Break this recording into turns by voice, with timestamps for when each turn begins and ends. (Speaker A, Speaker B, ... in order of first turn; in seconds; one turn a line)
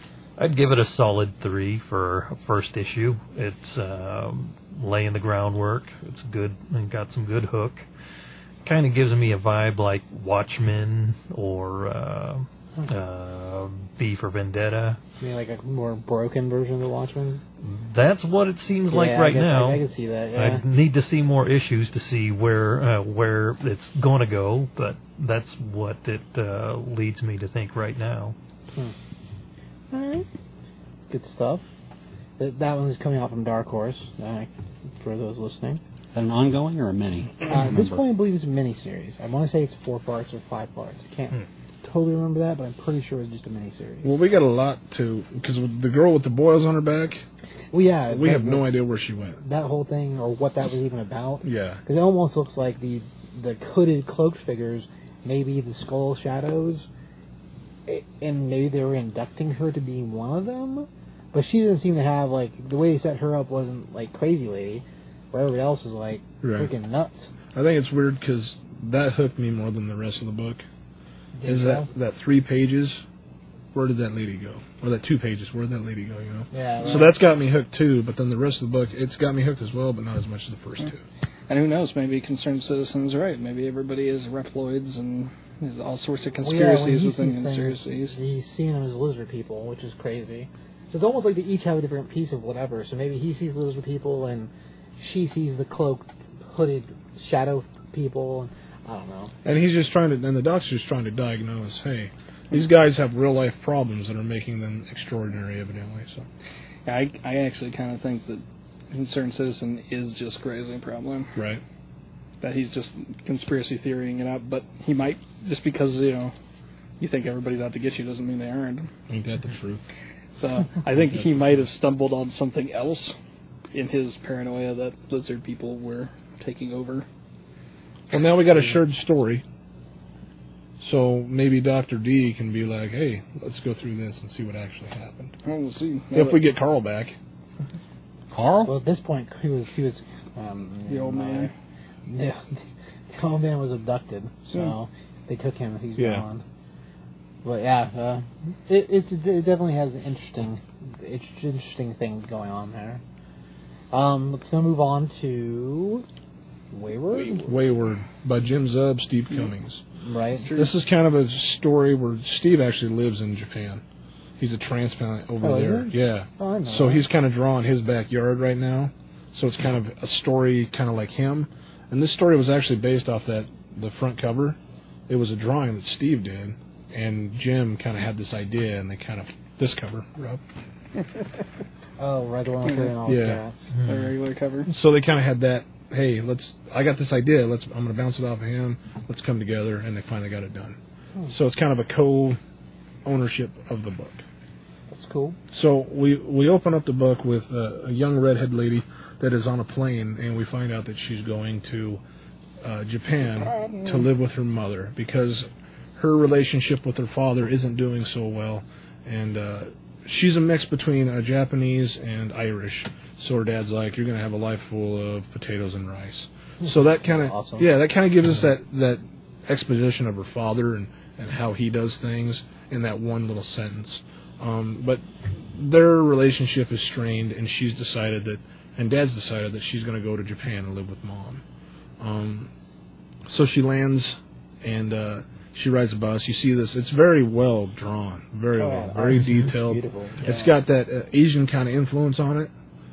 Speaker A: 0.4-7.8
Speaker A: 8.6-15.0
Speaker B: 15.2-17.4
Speaker A: 17.6-19.8
Speaker B: 18.9-20.6
Speaker A: 20.3-28.4
Speaker B: 29.9-30.2
Speaker B: 31.1-31.6
Speaker B: 32.4-35.8
Speaker C: 36.1-38.0
Speaker B: 37.5-44.2
Speaker D: 44.0-47.2
Speaker B: 47.7-48.6
Speaker D: 48.1-49.4
Speaker B: 49.4-56.9
Speaker D: 51.4-51.8
Speaker B: 57.9-67.2
Speaker D: 66.4-66.7
Speaker D: 67.5-70.6
Speaker B: 71.3-71.9
Speaker D: 71.5-73.0
Speaker D: 73.7-81.0
Speaker B: 76.5-77.1
Speaker E: 81.5-88.1
Speaker B: 86.4-99.3
Speaker D: 99.4-106.3
Speaker E: 106.8-111.3
Speaker D: 111.3-111.6
Speaker E: 112.4-116.3
Speaker E: 117.0-118.9
Speaker D: 119.1-119.8
Speaker E: 120.4-123.1
Speaker E: 123.7-127.0
Speaker D: 128.1-129.4
Speaker D: 130.8-135.3
Speaker E: 135.4-136.4
Speaker D: 136.1-137.1
Speaker C: 138.3-138.7
Speaker B: 138.6-141.5
Speaker E: 140.9-141.5
Speaker B: 142.1-142.4
Speaker B: 143.1-146.4
Speaker D: 146.0-146.2
Speaker B: 147.4-153.0
Speaker B: 153.9-156.1
Speaker B: 156.7-157.6
Speaker D: 157.2-159.8
Speaker B: 160.0-160.5
Speaker E: 160.4-160.7
Speaker D: 160.5-163.8
Speaker D: 164.4-180.4
Speaker B: 165.4-167.1
Speaker B: 182.0-183.5
Speaker E: 182.7-182.9
Speaker D: 183.1-183.4
Speaker A: 183.7-184.1
Speaker E: 183.8-184.7
Speaker D: 184.7-190.8
Speaker D: 191.3-192.4
Speaker D: 193.1-194.2
Speaker B: 194.9-195.4
Speaker D: 195.5-202.0
Speaker D: 202.6-231.4
Speaker E: 203.4-204.1
Speaker B: 216.6-217.7
Speaker D: 232.0-232.5
Speaker D: 233.3-242.5
Speaker B: 238.5-240.5